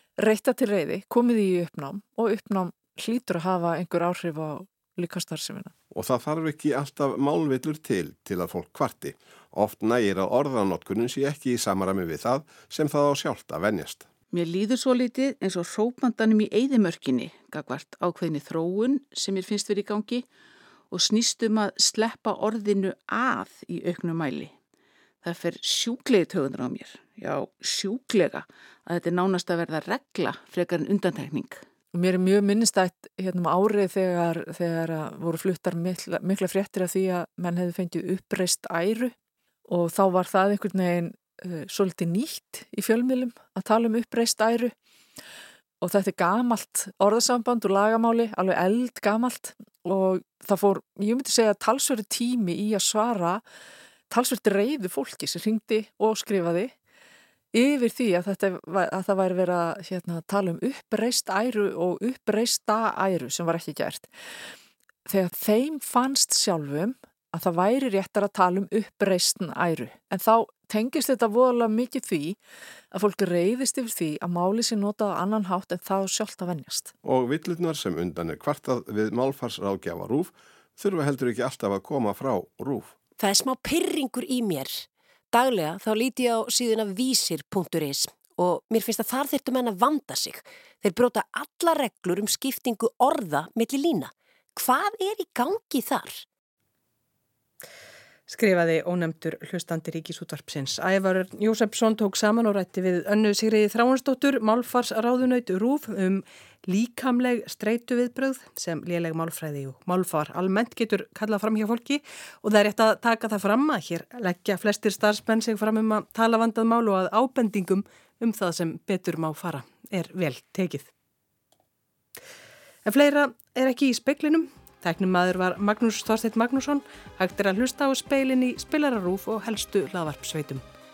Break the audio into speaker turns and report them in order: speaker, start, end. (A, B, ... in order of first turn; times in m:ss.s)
0:00.2-0:05.7 A
0:05.9-0:14.1 B
0:14.3-0:20.3 C
0:20.9-0:24.5 C
0:25.2-0:31.6 C
0:31.9-0:39.1 A
0:39.7-0:44.8 A
0:45.8-0:53.4 A
0:54.1-0:56.7 A
0:57.5-1:04.1 A
1:05.1-1:12.4 A
1:12.9-1:16.9 A
1:17.0-1:23.0 B
1:23.2-1:36.2 D
1:38.3-1:46.2 E
1:46.7-2:00.8 E
2:02.9-2:10.6 E